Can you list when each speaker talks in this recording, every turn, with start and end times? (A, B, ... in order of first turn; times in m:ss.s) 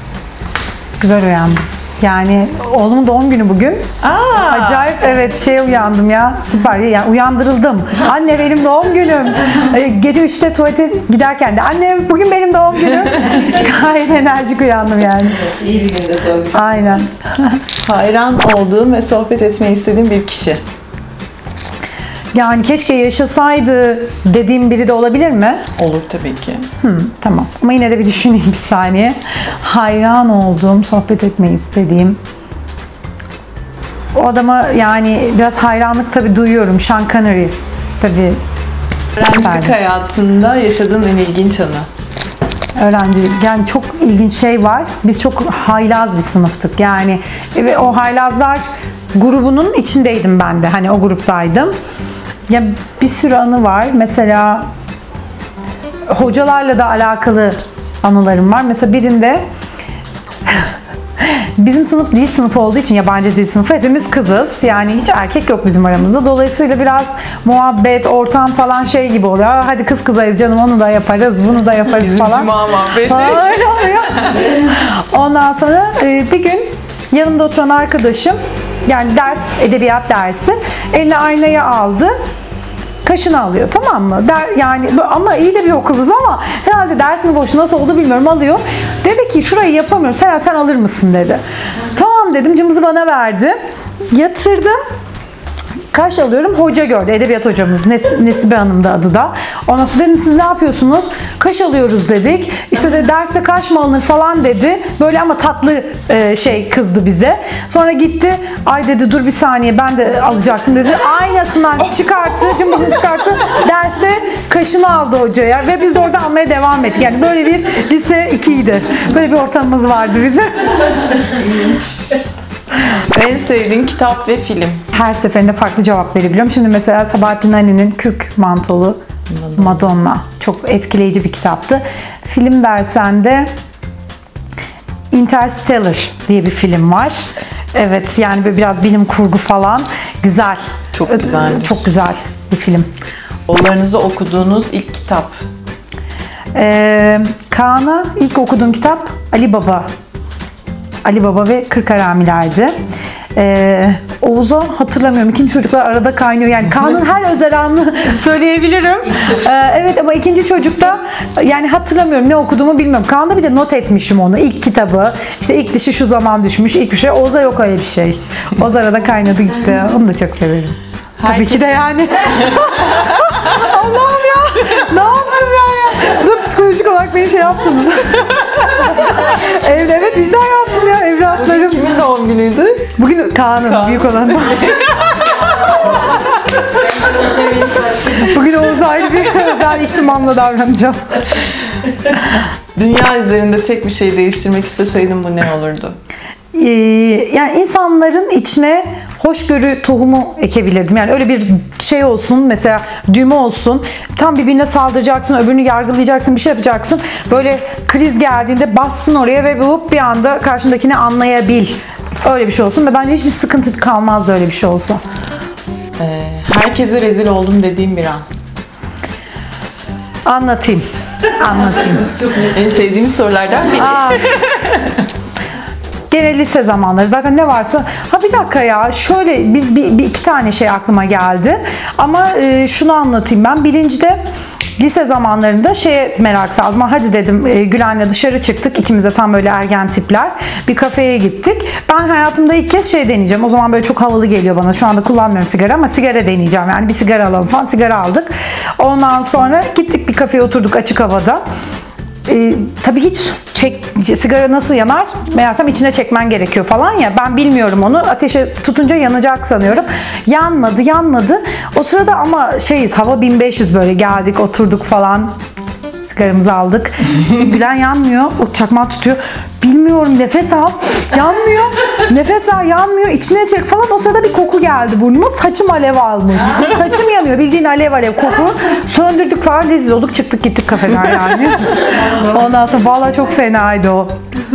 0:01.0-0:03.8 A
0:04.0-0:05.0 B
0:04.4-0:15.7 A
0:15.6-0:16.4 C
0:16.4-0:17.6 A
0:17.8-0:20.6 B
0:22.3-0:25.6 A
0:25.8-0:26.7 B
0:26.8-0:32.2 A
0:34.2-0:38.4 A
0:39.2-0:41.9 B
0:39.2-0:39.7 A
0:42.8-0:48.6 A
0:49.2-0:51.7 A
0:52.5-0:54.7 A
0:56.1-0:59.4 A
1:01.2-1:12.5 A
1:11.9-1:14.4 B
1:13.0-1:22.1 A
1:23.0-1:33.6 A
1:34.1-1:34.8 A
1:35.9-2:00.8 A
2:01.6-2:01.9 B
2:03.0-2:04.8 B
2:04.9-2:09.0 A
2:09.4-2:09.8 B
2:09.6-2:13.5 A
2:15.1-2:17.2 A
2:17.8-2:22.9 A
2:21.0-2:21.8 B
2:23.5-2:25.4 B
2:26.6-2:29.9 A
2:31.0-2:32.7 A
2:33.4-3:01.8 A
2:51.2-2:51.8 B
3:01.3-3:02.9 B
3:03.0-3:04.9 A
3:03.6-3:05.8 B
3:05.9-3:08.2 C
3:08.1-3:11.2 A
3:12.8-3:16.0 B
3:16.5-3:35.0 A
3:36.0-3:38.2 B
3:40.2-3:42.2 A
3:42.4-3:45.0 B
3:43.8-3:44.3 A
3:46.1-3:54.2 A
3:54.8-4:11.4 A
4:12.3-4:25.3 A
4:26.0-4:44.1 A